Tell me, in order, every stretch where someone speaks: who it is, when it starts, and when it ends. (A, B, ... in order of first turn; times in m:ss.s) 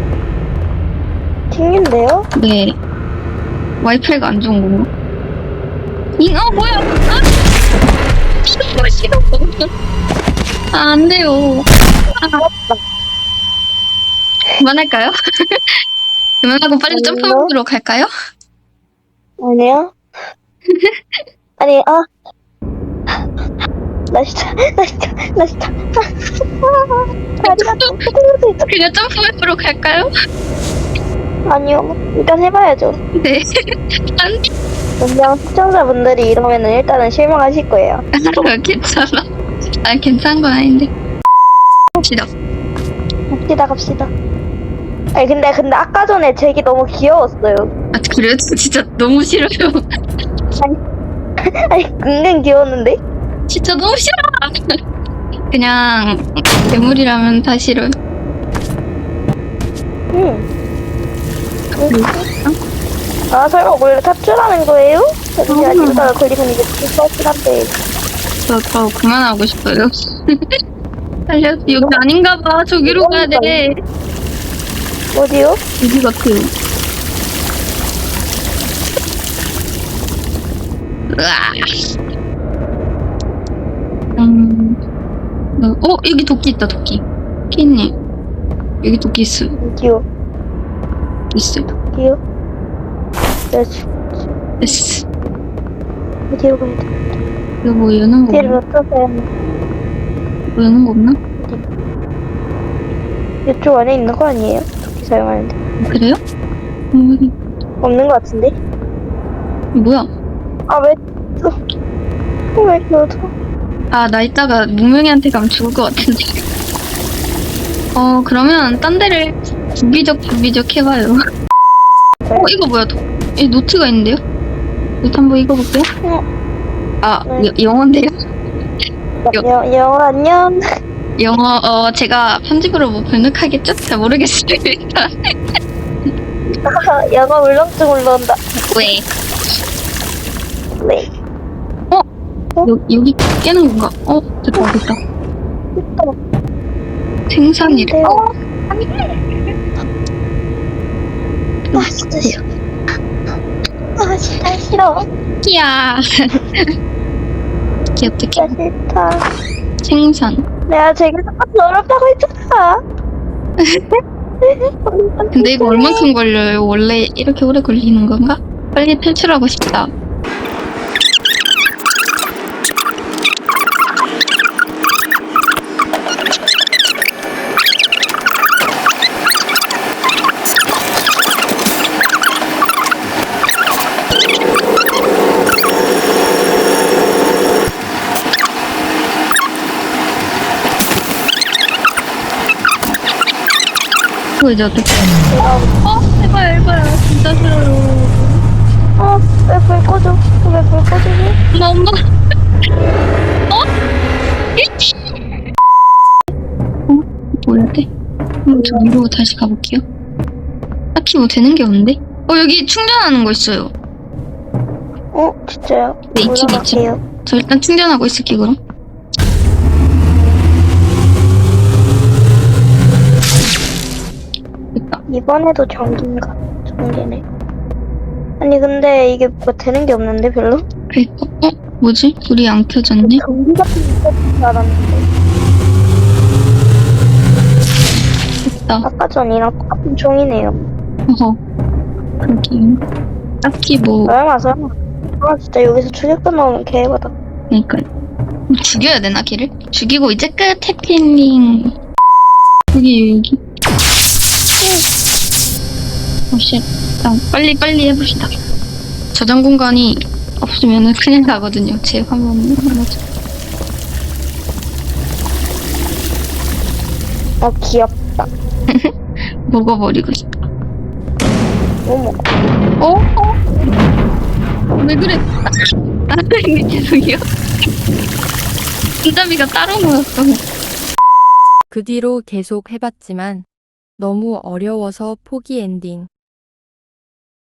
0:01.5-0:02.3 A
0:02.3-0:02.8 B
0:03.8-0:04.9 B
0:06.2-0:07.2 B
0:08.6-0:09.7 B
0:10.7-0:11.7 B
0:12.4-0:12.8 A
0:14.6-0:15.8 B
0:16.4-0:18.1 B
0:16.9-0:17.5 A
0:19.4-0:19.9 A
0:20.7-0:21.2 B
0:21.6-0:22.1 A
0:24.1-0:25.9 A
0:27.4-0:28.0 B
0:27.4-0:28.7 A
0:28.7-0:30.1 B
0:31.5-0:33.0 A
0:33.2-0:33.4 B
0:35.0-0:38.0 A
0:38.2-0:39.2 B
0:39.8-0:40.9 B
0:42.0-0:42.3 B
0:43.3-0:44.1 A
0:45.1-0:47.7 A
0:47.9-0:49.8 B
0:51.7-0:53.0 A
0:53.5-0:54.5 B
0:55.5-0:57.9 B
1:00.1-1:00.4 A
1:01.8-1:02.3 A
1:01.9-1:02.5 B
1:03.3-1:07.7 A
1:05.5-1:06.1 B
1:08.5-1:10.3 B
1:11.3-1:13.7 B
1:11.7-1:12.0 A
1:12.8-1:13.6 A
1:15.1-1:15.6 A
1:15.8-1:16.5 B
1:21.1-1:21.8 B
1:24.2-1:24.8 B
1:25.6-1:27.9 B
1:28.8-1:29.5 B
1:29.6-1:30.0 A
1:31.3-1:31.6 B
1:31.8-1:32.2 A
1:33.5-1:34.8 A
1:34.6-1:35.0 B
1:36.3-1:37.2 A
1:37.6-1:38.6 B
1:38.3-1:39.3 A
1:40.5-1:41.2 B
1:41.4-1:41.6 A
1:43.4-1:45.5 A
1:45.8-1:46.2 B
1:46.9-1:47.3 B
1:47.8-1:48.5 A
1:49.7-1:50.1 B
1:50.7-1:51.5 A
1:52.6-1:53.3 A
1:53.9-1:56.4 B
1:57.9-2:01.1 B
2:02.4-2:04.2 B
2:05.0-2:05.9 B
2:07.0-2:08.1 B
2:09.2-2:10.5 A
2:11.2-2:15.1 B
2:16.6-2:18.4 A
2:18.6-2:19.0 B
2:20.8-2:21.1 A
2:22.6-2:25.0 B
2:25.8-2:26.1 A
2:27.3-2:29.0 B
2:27.6-2:28.2 A
2:31.7-2:32.4 A
2:31.8-2:32.4 B
2:34.0-2:35.0 A
2:35.4-2:36.3 B
2:38.0-2:38.6 B
2:38.4-2:39.2 A
2:39.8-2:40.4 B
2:40.7-2:42.8 A
2:43.6-2:44.0 B
2:44.4-2:46.0 A
2:45.3-2:49.9 B
3:14.4-3:15.1 B
3:15.3-3:15.8 A
3:15.8-3:18.4 B
3:19.0-3:21.4 A
3:21.5-3:21.9 B
3:24.6-3:24.9 B
3:26.9-3:27.9 B
3:28.4-3:29.8 B
3:28.5-3:28.9 A
3:30.9-3:33.7 B
3:35.1-3:37.0 A
3:36.1-3:38.6 B
3:44.7-3:45.0 B
3:45.1-3:47.2 A
3:48.4-3:50.6 A
3:50.9-3:53.2 B
3:53.0-3:55.0 A
3:58.4-3:58.8 B
3:58.8-4:00.7 A
4:01.1-4:01.4 B
4:02.2-4:02.8 B
4:03.4-4:04.1 B
4:04.1-4:07.1 A
4:07.5-4:07.8 B
4:08.5-4:11.7 B
4:12.7-4:13.4 B
4:16.3-4:18.3 B
4:19.1-4:23.0 B
4:27.4-4:28.3 A
4:29.5-4:30.4 B
4:31.8-4:32.2 A
4:32.8-4:33.7 B
4:34.8-4:35.5 B
4:36.1-4:37.2 B
4:39.0-4:40.4 B
4:41.7-4:43.4 C
4:44.0-4:46.1 C